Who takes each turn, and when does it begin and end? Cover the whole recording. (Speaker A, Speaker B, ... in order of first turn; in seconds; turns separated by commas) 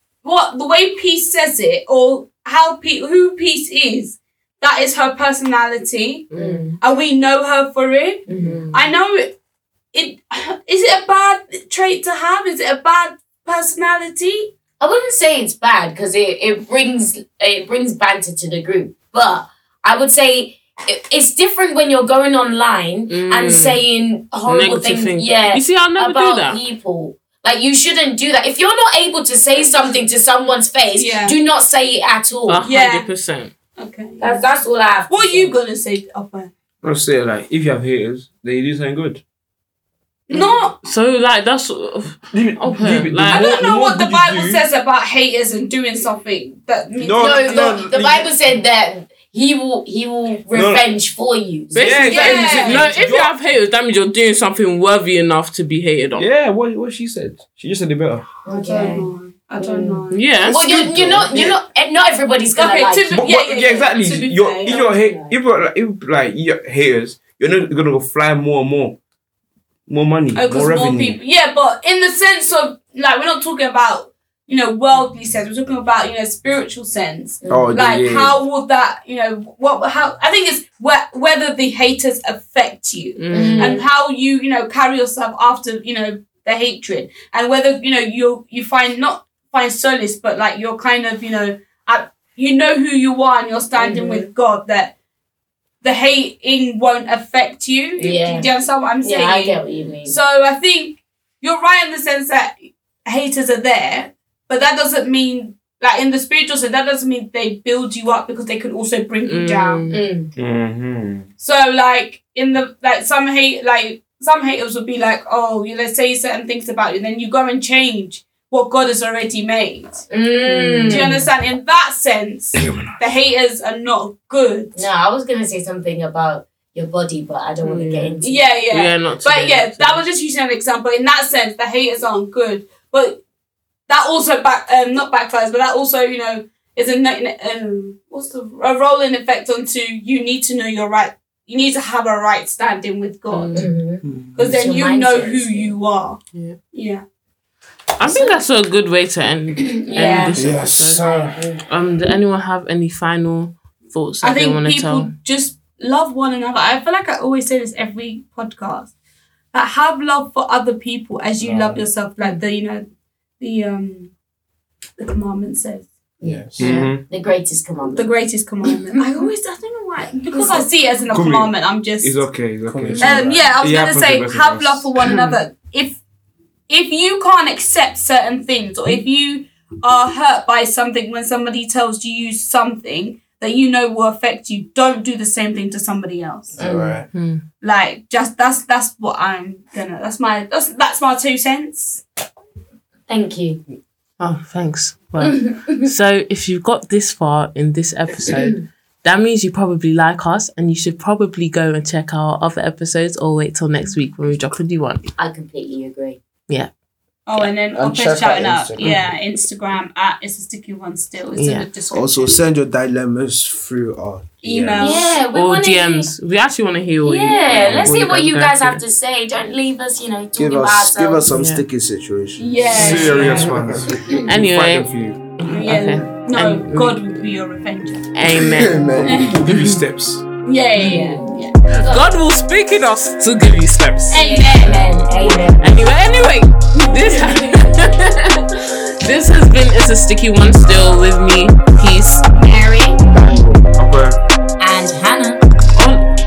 Speaker A: 0.2-9.4, Speaker B: 6.3-6.7, Speaker C: 6.3-6.8, Speaker C: 8.3-8.7, Speaker B: 8.3-8.7, Speaker A: 9.9-14.5, Speaker C: 14.8-32.6, Speaker B: 23.1-23.8, Speaker B: 24.4-26.6, Speaker A: 30.9-31.4, Speaker B: 32.5-33.5, Speaker A: 32.6-33.1, Speaker A: 33.8-34.4, Speaker C: 34.2-35.5, Speaker A: 35.1-36.5, Speaker D: 36.8-39.2, Speaker A: 40.3-40.8, Speaker B: 40.4-43.6, Speaker D: 42.3-44.6, Speaker A: 43.2-47.7, Speaker D: 47.0-48.3, Speaker C: 47.2-52.2, Speaker D: 50.5-50.9, Speaker B: 51.7-56.2, Speaker D: 51.8-53.3, Speaker A: 52.0-52.9, Speaker D: 56.2-58.2, Speaker C: 58.5-63.3, Speaker A: 58.5-60.4, Speaker B: 60.1-60.5, Speaker E: 60.4-61.6, Speaker A: 62.5-64.9, Speaker D: 63.1-69.0, Speaker C: 64.7-65.3, Speaker D: 69.9-71.2, Speaker A: 70.3-94.9, Speaker C: 77.4-77.7, Speaker D: 77.5-78.4, Speaker E: 77.5-77.8, Speaker B: 83.2-83.8, Speaker C: 83.3-83.8, Speaker C: 93.7-94.3, Speaker A: 95.8-109.9, Speaker C: 98.0-98.5, Speaker C: 99.0-100.2, Speaker B: 109.2-110.0, Speaker C: 109.9-110.3, Speaker D: 110.3-111.3, Speaker A: 111.4-120.0, Speaker C: 120.1-121.2, Speaker B: 120.4-121.3, Speaker A: 120.8-124.8, Speaker D: 122.6-122.9, Speaker C: 124.7-128.5, Speaker B: 127.6-130.0, Speaker A: 128.2-133.2, Speaker A: 133.9-143.7, Speaker B: 143.3-143.7, Speaker C: 143.5-145.7, Speaker A: 144.3-147.0, Speaker B: 148.0-155.1, Speaker C: 148.0-148.3, Speaker C: 149.7-150.4, Speaker E: 150.3-151.4, Speaker A: 154.2-158.9, Speaker A: 159.5-162.8, Speaker E: 161.4-161.8, Speaker A: 163.4-164.1, Speaker A: 165.0-165.9, Speaker C: 166.2-168.1, Speaker E: 166.2-166.9, Speaker D: 166.6-167.0, Speaker A: 167.9-172.3, Speaker C: 168.9-169.3, Speaker C: 170.3-170.6, Speaker D: 171.1-174.9, Speaker E: 172.6-173.5, Speaker A: 173.0-176.0, Speaker B: 175.0-175.4, Speaker A: 176.7-186.6, Speaker E: 186.6-187.1, Speaker C: 186.6-187.0, Speaker B: 187.1-187.4, Speaker A: 187.6-192.0, Speaker C: 193.1-193.6, Speaker B: 194.2-205.1, Speaker C: 195.2-195.9, Speaker C: 198.3-198.6, Speaker C: 205.2-206.2, Speaker A: 207.3-212.3, Speaker E: 207.7-209.1, Speaker B: 211.3-211.7, Speaker E: 211.9-214.9, Speaker A: 214.4-215.2, Speaker C: 214.8-216.1, Speaker B: 215.2-218.8, Speaker C: 217.0-221.3, Speaker D: 217.5-218.0, Speaker E: 220.3-222.7, Speaker B: 221.3-221.6, Speaker A: 222.4-223.4, Speaker B: 222.7-223.6, Speaker D: 222.7-225.2, Speaker E: 223.5-224.0, Speaker B: 224.2-227.0, Speaker A: 225.5-228.1, Speaker B: 228.1-229.8, Speaker E: 228.3-229.4, Speaker A: 229.0-229.5, Speaker D: 229.3-230.3, Speaker A: 230.4-231.6, Speaker B: 230.8-231.2, Speaker C: 231.7-232.1, Speaker B: 231.8-234.4, Speaker A: 234.1-235.6, Speaker C: 234.2-235.7, Speaker D: 235.2-235.6, Speaker B: 235.6-242.3, Speaker A: 236.8-237.7, Speaker A: 242.4-243.0, Speaker D: 243.2-244.2, Speaker C: 244.6-245.4, Speaker B: 245.7-246.0